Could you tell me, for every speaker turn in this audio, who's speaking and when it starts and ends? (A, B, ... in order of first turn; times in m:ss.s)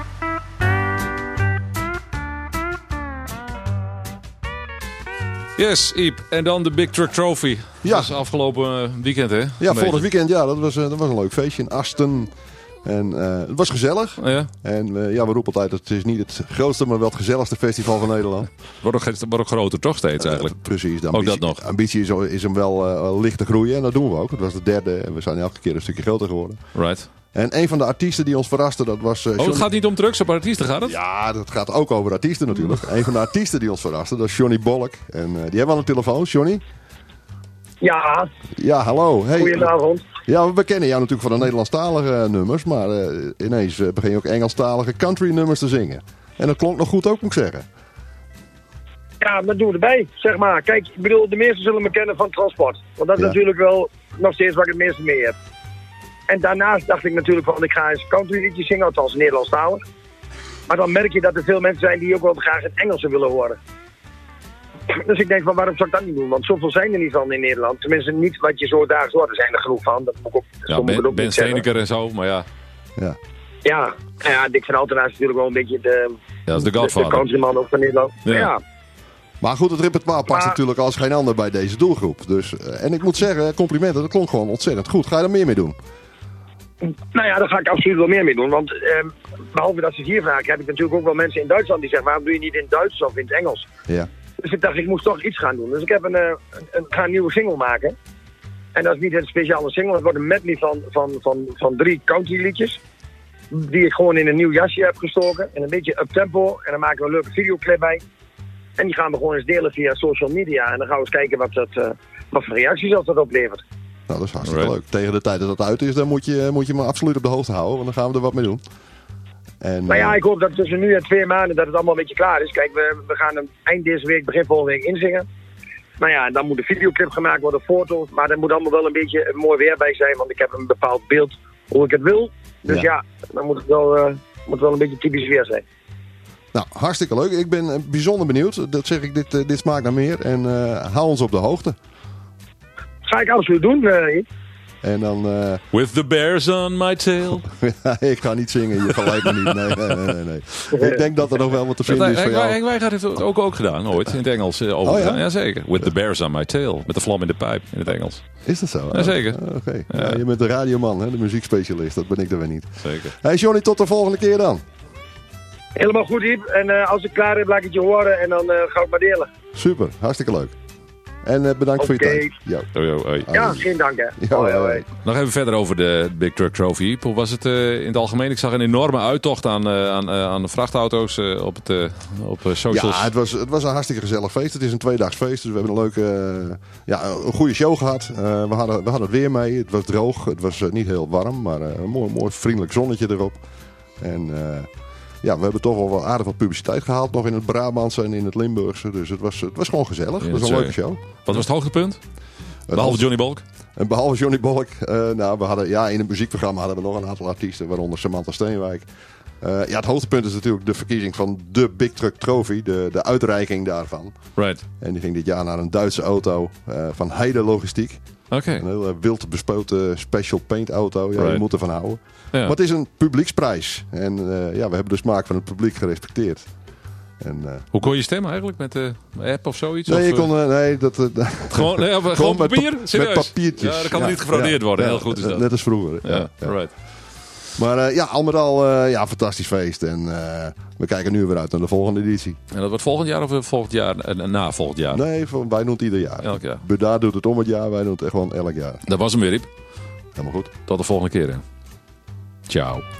0:05.6-0:10.1 A
0:07.8-0:08.1 B
0:09.6-0:12.3 B
0:12.8-0:18.5 B
0:14.2-0:14.5 A
0:18.8-0:20.6 A
0:20.2-0:26.6 B
0:21.1-0:21.6 A
0:26.7-0:27.1 A
0:27.3-0:29.7 B
0:29.4-0:31.0 A
0:30.8-0:36.6 B
0:37.8-0:38.3 C
0:38.6-0:39.7 B
0:39.4-0:40.1 C
0:40.2-0:47.6 B
0:49.2-0:55.4 C
0:56.3-0:59.8 C
1:00.7-1:03.6 C
1:04.9-1:11.6 C
1:10.7-1:12.5 A
1:13.6-1:18.6 C
1:16.5-1:17.3 A
1:18.2-1:18.5 A
1:19.4-1:25.8 B
1:20.3-1:20.6 C
1:27.1-1:33.7 C
1:34.4-1:37.9 C
1:38.8-1:42.8 C
1:43.5-1:48.0 C
1:48.8-1:53.6 C
1:54.1-1:58.6 B
1:54.4-1:54.7 A
1:59.6-2:00.2 B
1:59.9-2:05.2 C
2:06.0-2:15.6 C
2:16.5-2:21.8 B
2:23.1-2:24.2 C
2:24.8-2:25.6 B
2:25.7-2:27.5 A
2:27.6-2:32.6 B
2:30.8-2:31.0 C
2:31.9-2:38.2 A
2:34.8-2:35.2 B
2:38.4-2:44.6 B
2:38.9-2:39.4 A
2:39.9-2:40.2 A
2:42.8-2:43.1 A
2:45.8-2:49.3 C
2:49.5-2:50.5 B
2:51.2-2:52.7 B
2:51.8-2:52.3 C
2:52.8-2:53.5 A
2:53.3-2:53.5 B
2:53.3-2:54.8 C
2:54.2-2:54.8 B
2:55.0-3:03.1 A
3:02.7-3:13.4 B
3:14.0-3:14.7 B
3:15.2-3:21.4 B
3:20.2-3:22.0 A
3:22.7-3:23.1 B
3:22.7-3:23.4 A
3:23.8-3:28.9 B
3:29.4-3:34.2 B
3:34.4-3:34.6 A
3:34.8-3:38.0 B
3:38.3-3:38.6 A
3:38.6-3:46.5 B
3:41.2-3:41.4 A
3:47.2-3:47.7 B
3:47.7-3:50.3 A
3:49.9-3:56.6 B
3:51.5-3:55.5 A
3:56.0-3:56.7 A
3:57.6-4:02.4 B
4:02.5-4:05.0 A
4:04.9-4:08.8 B
4:06.2-4:06.6 A
4:08.9-4:09.5 A
4:10.2-4:10.5 B
4:10.7-4:11.4 A
4:12.5-4:12.8 A